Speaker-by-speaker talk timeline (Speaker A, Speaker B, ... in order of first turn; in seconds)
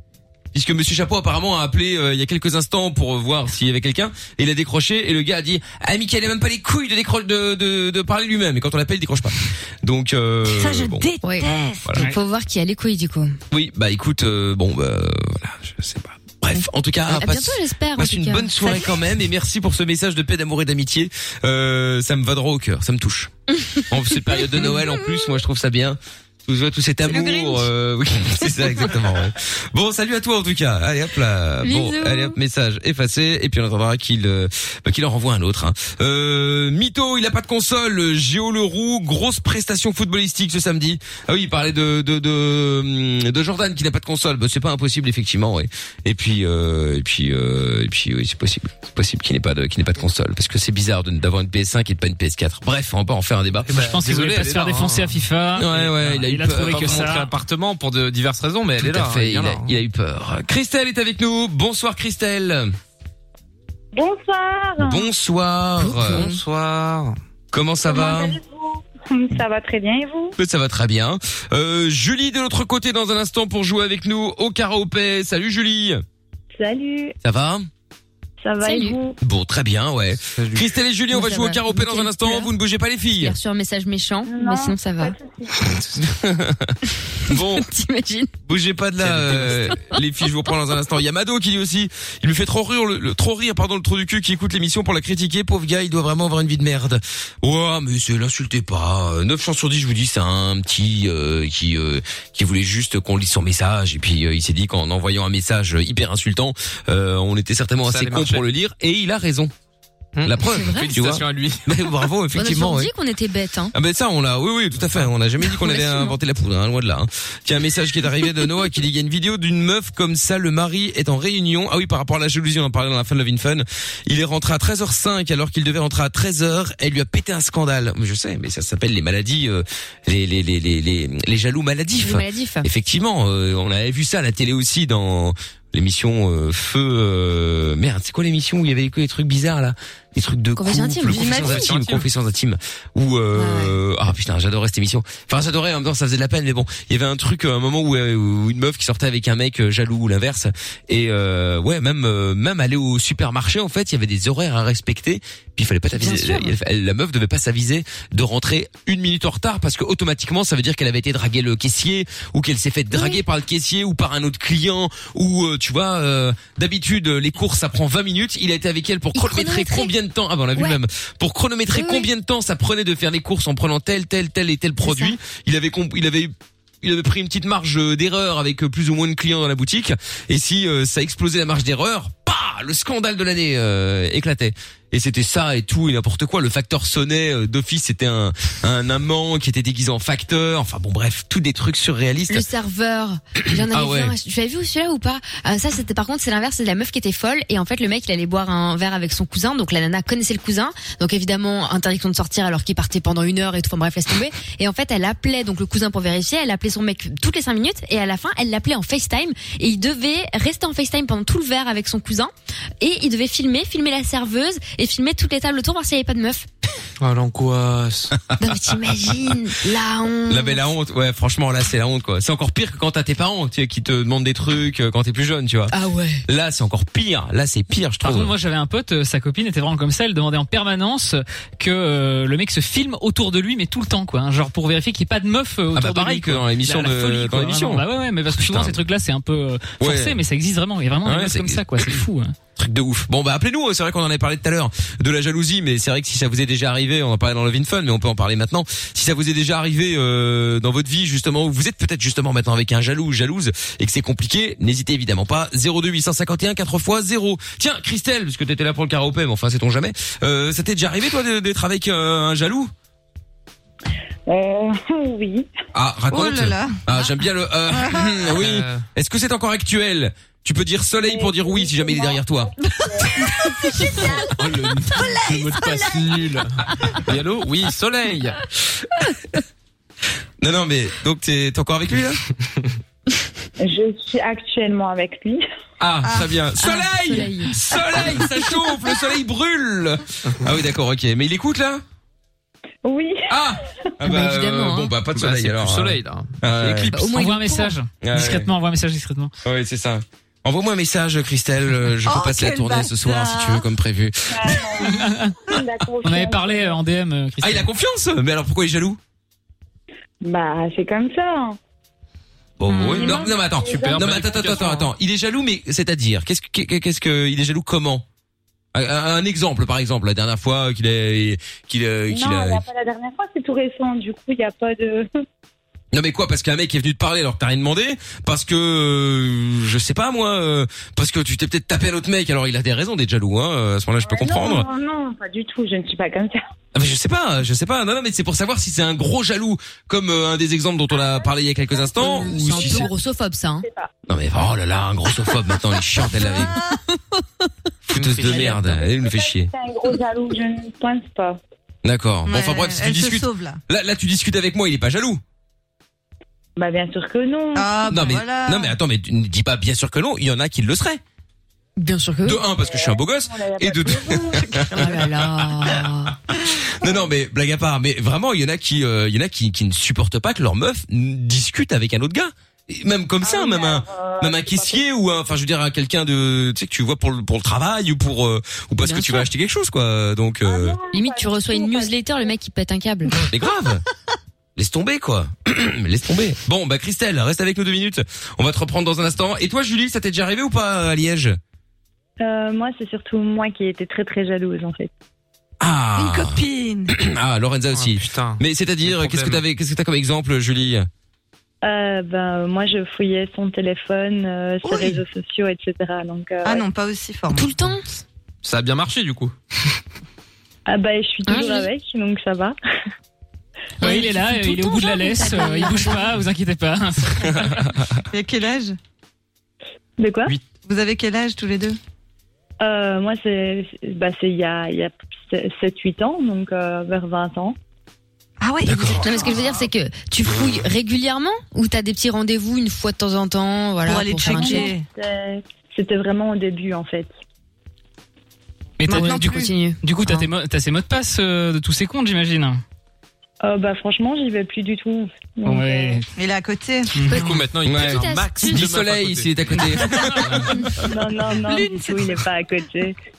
Speaker A: 0.5-11.1, 13.5-23.3, 23.9-53.8, 55.5-57.2, 58.8-62.7, 64.8-66.3, 67.5-68.4, 70.4-76.0, 77.2-77.7, 79.2-83.3, 85.7-86.8, 87.3-87.7, 88.5-109.5, 110.2-112.9, 113.7-192.4, 193.5-194.1, 220.3-225.7, 226.3-228.3, 235.7-238.8, 239.8-240.2, 241.0-242.0, 242.6-262.7, 265.7-272.5, 274.4-275.1, 280.4-282.2, 285.8-291.8, 293.3-297.0, 298.0-298.5, 299.4-304.9, 307.4-309.0, 312.6-318.0, 318.7-322.6, 325.9-334.6, 336.7-342.9, 344.1-346.6, 347.9-349.5, 351.8-355.2, 357.9-361.0, 362.2-365.0, 366.8-380.8, 383.3-383.8, 384.6-391.4, 395.6-400.9, 428.6-429.0, 447.6-450.7
Speaker B: 10.4-12.0, 266.1-267.0, 267.8-268.1, 272.6-276.4, 302.0-303.6, 346.2-346.8, 352.3-353.6, 357.5-358.7, 364.4-364.9, 395.9-396.9, 404.6-405.0, 406.4-407.5, 415.5-415.8, 418.1-418.8, 420.7-421.8, 428.4-429.4, 433.8-434.9, 438.8-439.5, 446.1-446.9, 451.4-452.2
Speaker C: 11.2-13.3, 17.1-19.0, 27.1-27.7, 31.6-32.3, 65.8-66.3, 78.6-79.0, 81.1-82.5, 83.2-85.1, 87.3-88.3, 110.4-110.9, 112.3-113.7, 115.4-116.2, 132.0-132.7, 140.6-141.5, 143.3-143.8, 156.0-156.5, 162.9-163.2, 169.1-169.9, 171.7-172.1, 174.8-175.1, 192.3-216.5, 218.4-220.6, 225.7-226.2, 286.6-287.5, 294.0-294.9, 296.9-297.7, 342.0-343.6, 361.8-362.4, 364.7-366.2, 378.8-379.2, 380.9-383.2, 407.3-407.8, 411.2-411.7, 413.8-416.1, 429.0-434.8, 438.9-440.3, 447.0-448.6
Speaker D: 53.7-55.2, 56.7-59.7, 65.9-67.2, 80.3-80.7, 89.0-89.7, 107.8-108.4, 110.1-111.7, 141.1-142.1, 217.0-218.2, 268.3-268.9, 274.4-278.4, 295.1-296.9, 313.6-314.9, 347.9-348.6, 397.7-399.4, 408.4-409.3, 447.0-450.7
Speaker E: 53.7-57.3, 228.0-242.3, 297.0-299.3, 304.8-305.4, 306.0-307.7, 413.8-417.6, 438.8-442.6, 445.4-446.0, 446.9-447.4
Speaker F: 63.9-65.1, 67.9-70.3, 76.5-77.1, 78.4-79.2, 84.2-85.6, 264.3-265.5, 271.0-273.3, 283.6-285.4, 292.8-293.6, 304.3-306.8, 310.2-311.6, 312.6-314.7, 322.1-325.1, 334.0-336.4, 340.9-342.9, 343.6-343.9, 348.7-351.4, 356.6-357.9, 362.5-364.6, 373.2-375.2, 380.4-382.3, 392.2-394.9, 401.6-406.6, 410.7-412.6, 420.0-420.3, 422.6-427.6, 434.3-437.1, 443.4-446.0, 450.9-452.9